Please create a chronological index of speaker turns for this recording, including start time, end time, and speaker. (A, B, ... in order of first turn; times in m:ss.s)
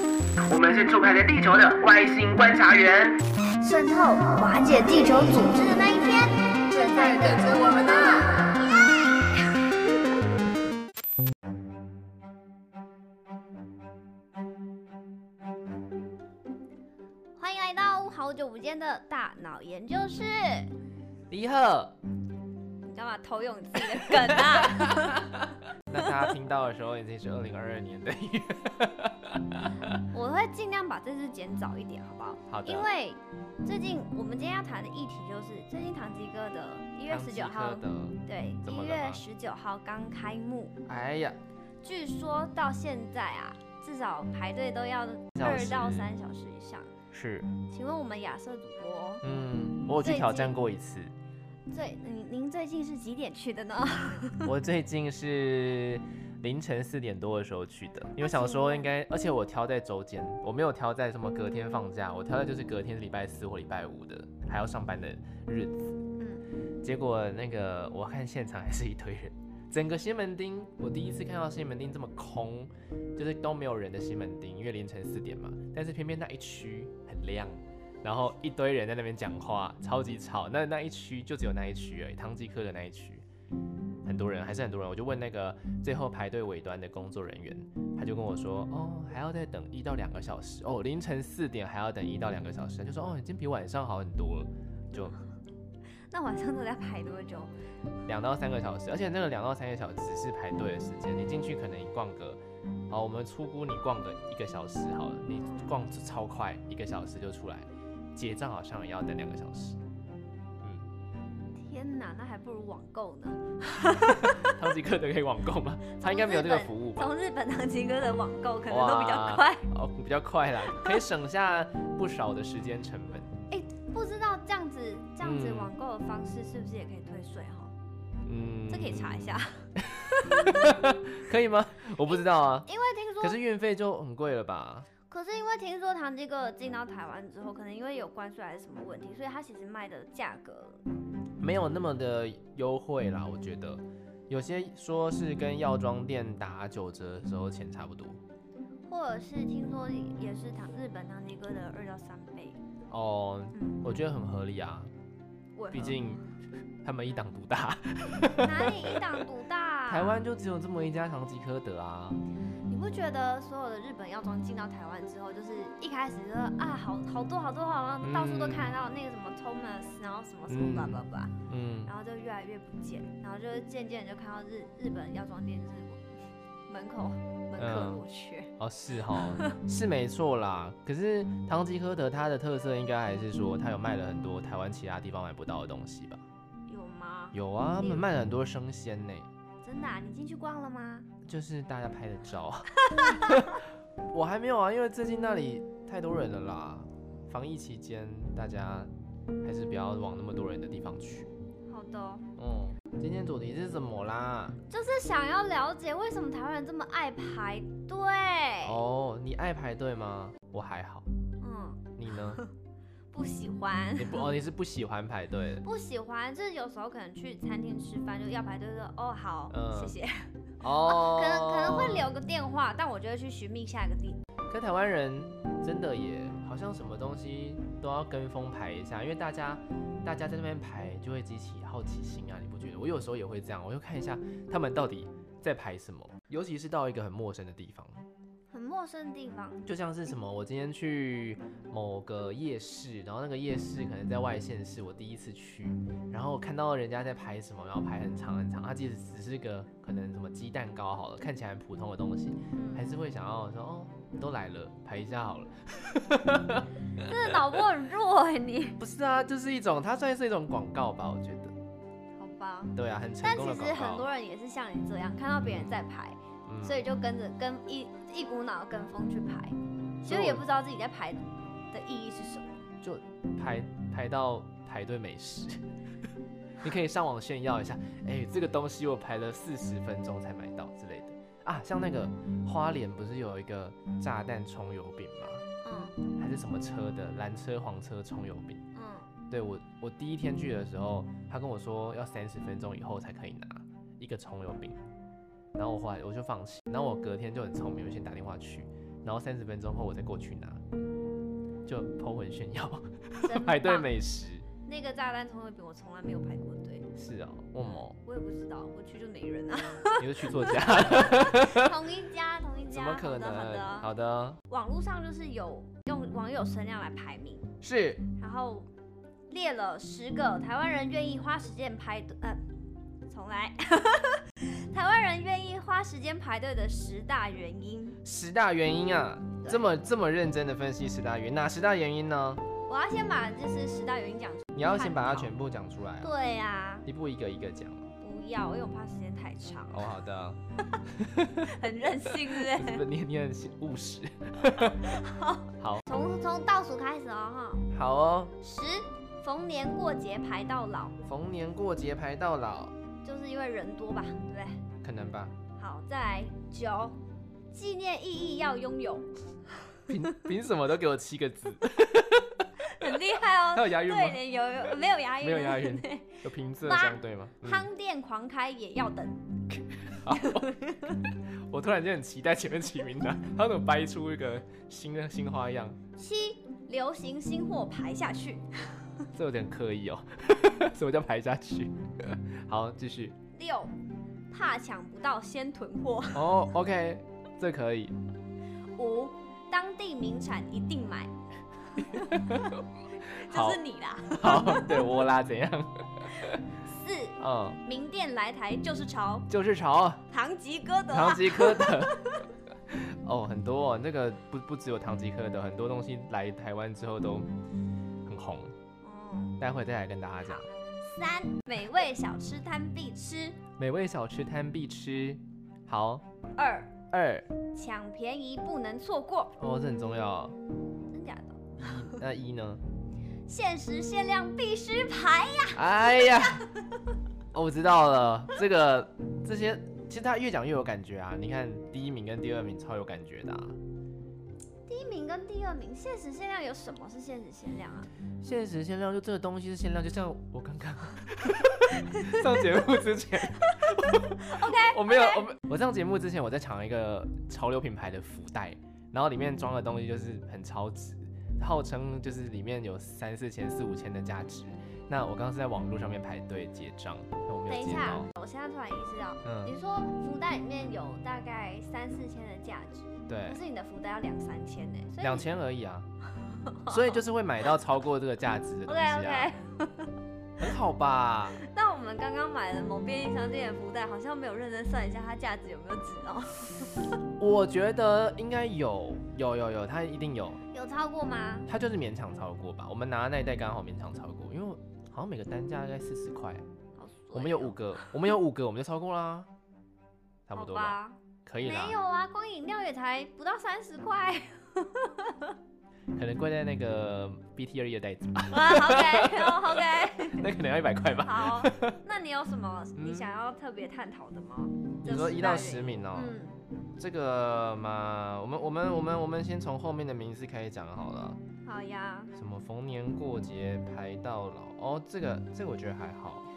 0:00.5-0:03.2 A
0:00.5-0:02.8 B
0:03.6-0:09.7 C
0:06.8-0:08.1 B
0:06.8-0:08.2 A
0:17.4-0:20.7 C
0:21.3-0:22.0 B
0:22.8-0:25.4 C
0:23.8-0:30.0 B
0:26.0-0:26.3 C
0:30.1-0:40.8 C
0:32.5-0:32.9 B
0:37.1-0:39.2 B
0:40.9-0:41.4 B
0:41.8-0:46.9 C
0:45.4-0:46.1 B
0:47.1-0:47.5 B
0:47.7-0:49.2 C
0:49.2-0:51.1 B
0:50.0-0:50.6 C
0:51.7-0:54.5 C
0:54.4-1:06.0 B
0:58.2-0:58.9 C
1:06.2-1:06.4 C
1:06.8-1:23.2 B
1:24.0-1:35.2 B
1:36.1-1:37.5 C
1:38.1-1:49.8 B
1:45.4-1:45.7 C
1:50.6-1:50.9 B
1:51.6-1:54.7 C
1:54.2-1:57.1 B
1:55.9-1:59.7 C
1:58.7-2:03.3 B
2:00.7-2:01.0 C
2:03.5-2:07.7 C
2:05.2-2:05.7 B
2:08.2-2:12.7 B
2:08.7-2:09.7 C
2:12.1-2:13.4 C
2:13.2-2:14.9 B
2:15.1-2:20.8 C
2:21.4-2:28.2 B
2:28.9-2:32.6 C
2:32.9-2:34.9 B
2:33.5-2:33.8 C
2:35.6-2:36.2 C
2:35.7-2:36.2 B
2:36.8-2:39.1 B
2:38.4-2:40.2 C
2:39.9-2:42.2 B
2:42.7-2:51.3 C
2:48.0-2:48.8 B
2:50.5-2:51.9 B
2:51.8-2:56.0 C
2:56.7-2:58.5 C
2:57.6-2:58.0 B
2:58.6-3:06.2 B
2:59.1-2:59.6 C
3:06.7-3:08.1 C
3:07.3-3:09.3 B
3:09.6-3:11.1 C
3:11.2-3:18.9 B
3:12.9-3:13.5 C
3:19.4-3:21.3 B
3:21.7-3:22.3 C
3:22.4-3:24.6 B
3:24.7-3:28.8 C
3:28.6-3:31.1 B
3:31.4-3:32.5 C
3:32.0-3:32.4 B
3:33.1-3:34.3 C
3:34.0-3:35.7 B
3:35.6-3:44.2 C
3:39.5-3:40.0 B
3:40.6-3:42.1 B
3:44.5-3:58.1 B
3:58.5-3:59.7 C
3:59.6-4:17.1 B
4:12.5-4:12.9 C
4:16.9-4:18.8 C
4:18.8-4:21.5 B
4:22.2-4:32.7 C
4:22.8-4:24.1 B
4:25.4-4:25.8 B
4:26.5-4:26.8 B
4:30.0-4:30.5 B
4:32.8-4:35.6 B
4:36.6-4:45.4 B
4:45.6-4:46.0 C
4:46.2-4:48.6 B
4:48.7-4:49.1 C
4:49.3-4:54.8 B
4:55.6-5:00.7 B
5:01.7-5:04.5 B
5:03.2-5:03.9 C
5:04.6-5:06.9 C
5:07.0-5:08.0 B
5:07.6-5:13.9 C
5:10.0-5:11.7 B
5:12.7-5:14.4 B
5:14.5-5:17.5 C
5:17.6-5:18.1 B
5:18.2-5:18.7 C
5:19.3-5:22.4 C
5:23.1-5:28.0 C
5:28.0-5:32.4 B
5:32.7-5:35.3 C
5:34.6-5:36.1 B
5:36.0-5:36.9 C
5:36.9-5:37.9 B
5:38.0-5:39.9 C
5:39.7-5:40.4 B
5:41.0-5:45.0 B
5:41.4-5:42.8 C
5:44.8-5:47.7 C
5:47.7-5:48.3 B
5:48.4-5:51.0 C
5:51.1-5:52.7 B
5:53.0-5:54.6 C
5:54.8-5:55.4 B
5:55.6-5:57.0 C
5:57.5-5:59.1 C
5:59.9-6:03.0 B
6:02.6-6:11.0 C
6:03.5-6:04.2 B
6:05.2-6:07.7 B
6:10.0-6:15.8 B
6:16.0-6:18.9 C
6:19.1-6:23.2 B
6:23.3-6:23.8 C
6:24.3-6:26.4 C
6:26.1-6:28.0 B
6:28.8-6:31.1 C
6:31.7-6:32.2 C
6:31.8-6:32.6 B
6:33.0-6:34.9 C
6:33.2-6:36.4 B
6:36.6-6:39.3 C
6:37.2-6:37.6 B
6:39.3-6:40.0 B
6:40.1-6:42.3 C
6:40.9-6:47.3 B
6:48.1-6:48.5 B
6:48.8-6:49.4 C
6:49.4-6:50.5 B
6:50.2-6:53.4 C
6:53.6-6:56.0 B
6:56.4-6:56.8 C
6:56.9-6:57.3 B
6:57.5-6:59.4 C
6:59.4-7:00.4 B
7:00.9-7:02.0 C
7:01.6-7:02.6 B
7:03.3-7:06.6 C
7:05.5-7:06.5 B
7:07.3-7:13.6 B
7:14.7-7:17.9 C
7:18.2-7:38.1 B
7:21.8-7:22.4 C
7:24.2-7:25.3 C
7:37.5-7:45.3 C
7:39.2-7:39.6 B
7:43.1-7:43.4 B
7:45.0-7:45.9 B
7:46.2-7:47.5 C
7:46.7-7:49.4 B
7:48.7-7:49.9 C
7:50.4-7:51.4 B
7:51.4-7:56.9 C
7:57.2-8:00.4 B
8:00.5-8:01.5 C
8:01.5-8:06.4 B
8:06.8-8:07.9 C
8:07.1-8:09.3 B
8:10.3-8:11.8 B
8:10.3-8:15.3 C
8:16.0-8:21.8 B
8:18.3-8:20.3 C
8:21.0-8:26.4 C
8:22.8-8:23.1 B
8:24.8-8:26.2 B
8:26.8-8:31.2 B
8:31.4-8:32.1 C
8:32.1-8:36.3 B